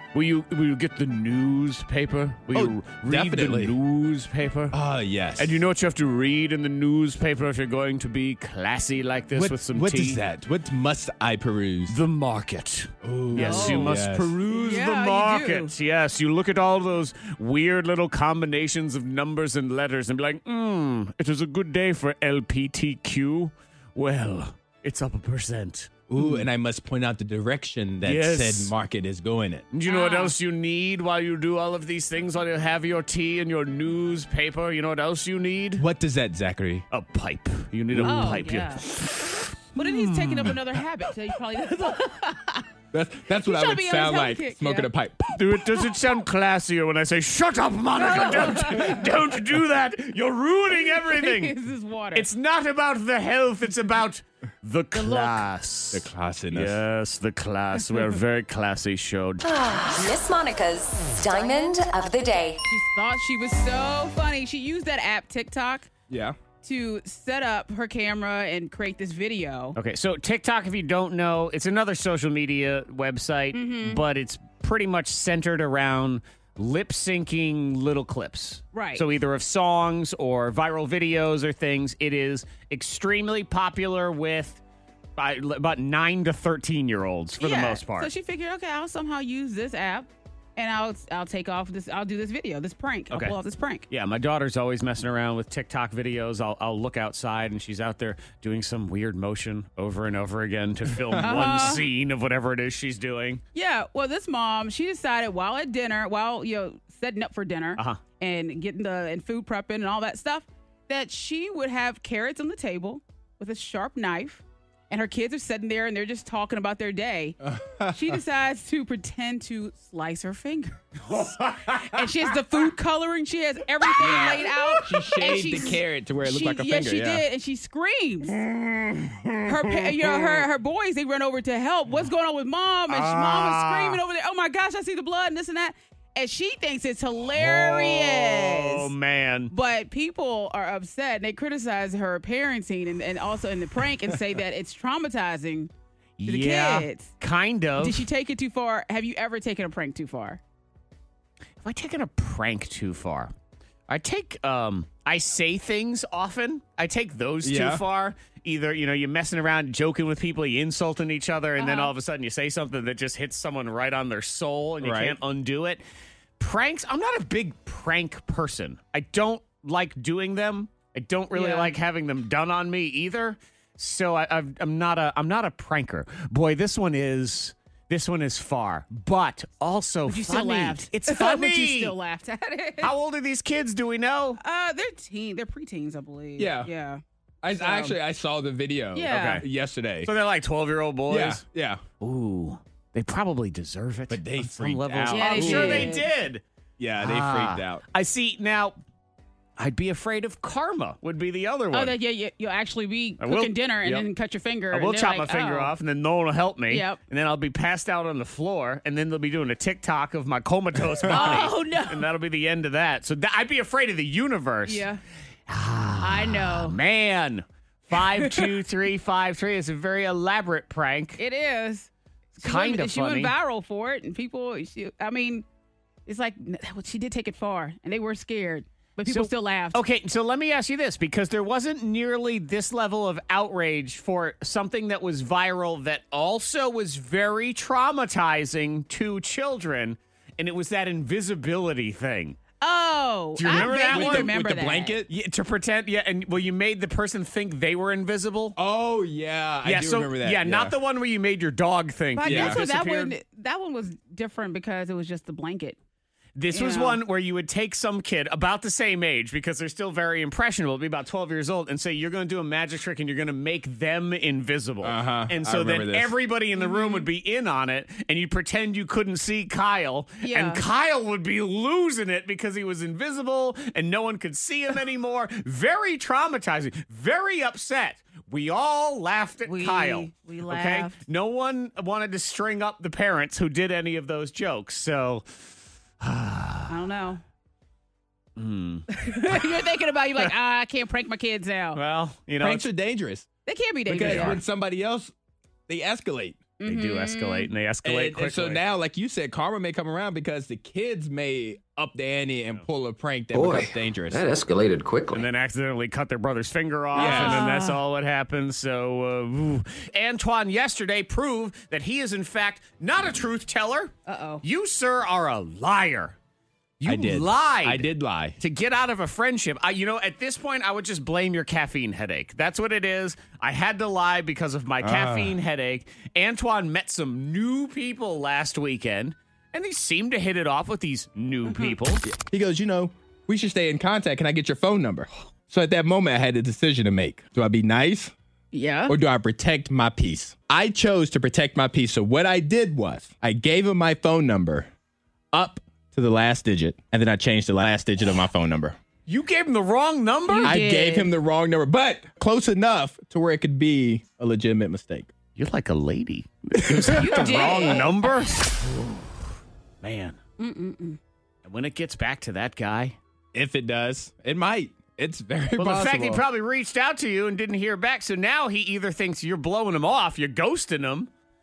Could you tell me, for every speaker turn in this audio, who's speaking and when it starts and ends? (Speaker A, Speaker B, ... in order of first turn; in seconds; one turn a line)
Speaker A: 0.1-4.8
Speaker B: 2.5-3.8
Speaker B: 4.7-5.7
Speaker A: 5.4-10.2
Speaker B: 9.3-12.0
Speaker A: 11.9-26.4
Speaker B: 13.0-14.4
Speaker C: 13.3-15.7
Speaker B: 26.1-29.7
Speaker A: 28.0-28.7
Speaker A: 29.7-35.9
Speaker C: 29.9-30.4
Speaker B: 35.8-36.9
Speaker A: 36.9-40.6
Speaker B: 37.9-38.4
Speaker C: 38.0-38.9
Speaker C: 39.8-42.7
Speaker B: 42.9-45.4
Speaker C: 43.4-44.9
Speaker A: 45.4-51.5
Speaker C: 48.0-49.1
Speaker C: 50.8-52.3
Speaker A: 52.1-59.5
Speaker C: 54.9-55.5
Speaker B: 55.9-56.8
Speaker D: 59.4-62.6
Speaker C: 62.7-65.9
Speaker B: 66.1-66.4
Speaker C: 66.6-69.8
Speaker A: 69.8-84.6
Speaker C: 73.5-74.0
Speaker C: 78.7-79.1
Speaker A: 85.2-88.1
Speaker C: 87.4-93.9
Speaker A: 93.1-93.3
Speaker A: 93.9-103.4
Speaker B: 101.0-101.4
Speaker C: 101.2-101.8
Speaker C: 103.5-117.4
Speaker B: 117.4-118.2
Speaker C: 117.9-120.8
Speaker A: 121.1-122.0
Speaker C: 121.7-128.4
Speaker B: 124.0-127.2
Speaker A: 128.3-130.4
Speaker C: 129.5-138.9
Speaker A: 132.9-134.0
Speaker A: 137.3-139.5
Speaker C: 139.5-145.7
Speaker A: 146.2-148.1
Speaker C: 146.2-147.1
Speaker C: 147.8-150.4
Speaker A: 151.6-153.3
Speaker A: 153.9-165.8
Speaker B: 157.4-157.8
Speaker C: 161.6-161.9
Speaker B: 164.8-165.2
Speaker A: 166.4-181.9
Speaker C: 171.3-171.8
Speaker C: 180.1-182.9
Speaker A: 182.8-184.4
Speaker C: 184.4-187.0
Speaker B: 186.4-186.7
Speaker B: 187.4-190.1
Speaker C: 187.6-188.0
Speaker C: 188.9-189.4
Speaker A: 189.1-189.4
Speaker A: 190.0-191.4
Speaker B: 191.1-191.8
Speaker A: 192.0-196.4
Speaker B: 194.1-196.0
Speaker C: 195.1-196.1
Speaker B: 196.8-197.8
Speaker A: 197.0-198.8
Speaker A: 199.6-201.9
Speaker C: 201.7-205.7
Speaker A: 203.2-204.1
Speaker A: 204.7-214.8
Speaker C: 206.7-207.0
Speaker B: 211.0-211.4
Speaker C: 211.1-212.1
Speaker C: 214.7-215.0
Speaker A: 215.5-221.2
Speaker C: 216.0-216.8
Speaker C: 218.0-218.6
Speaker C: 221.2-225.4
Speaker A: 222.4-223.3
Speaker C: 226.1-229.8
Speaker A: 229.1-242.4
Speaker C: 242.6-245.0
Speaker A: 243.4-244.3
Speaker B: 243.5-245.1
Speaker A: 245.1-248.6
Speaker B: 248.6-250.8
Speaker A: 249.6-253.1
Speaker C: 252.2-255.8
Speaker B: 252.2-252.6
Speaker A: 256.4-286.7
Speaker C: 256.5-257.0
Speaker B: 264.8-266.1
Speaker C: 266.6-267.1
Speaker C: 270.2-270.6
Speaker C: 279.5-281.0
Speaker C: 286.7-287.2
Speaker A: 288.4-290.3
Speaker C: 288.9-291.8
Speaker A: 291.7-292.7
Speaker B: 292.4-293.3
Speaker C: 293.5-294.4
Speaker B: 293.9-295.1
Speaker A: 293.9-294.4
Speaker B: 295.7-296.4
Speaker C: 296.6-297.5
Speaker A: 296.6-298.6
Speaker B: 297.8-304.2
Speaker E: 303.3-305.3
Speaker A: 305.1-316.2
Speaker C: 306.9-307.8
Speaker B: 306.9-307.5
Speaker C: 314.1-314.4
Speaker A: 316.8-332.0
Speaker B: 316.9-318.4
Speaker B: 324.8-325.4
Speaker C: 331.5-331.8
Speaker B: 332.0-338.1
Speaker C: 338.5-338.9
Speaker B: 338.9-344.7
Speaker B: 345.3-348.8
Speaker A: 349.1-350.5
Speaker C: 350.3-351.1
Speaker B: 350.4-355.1
Speaker A: 355.4-358.6
Speaker B: 356.7-357.5
Speaker C: 356.9-357.9
Speaker A: 359.8-360.2
Speaker C: 360.4-361.0
Speaker A: 361.4-363.0
Speaker B: 363.3-366.2
Speaker A: 365.6-371.1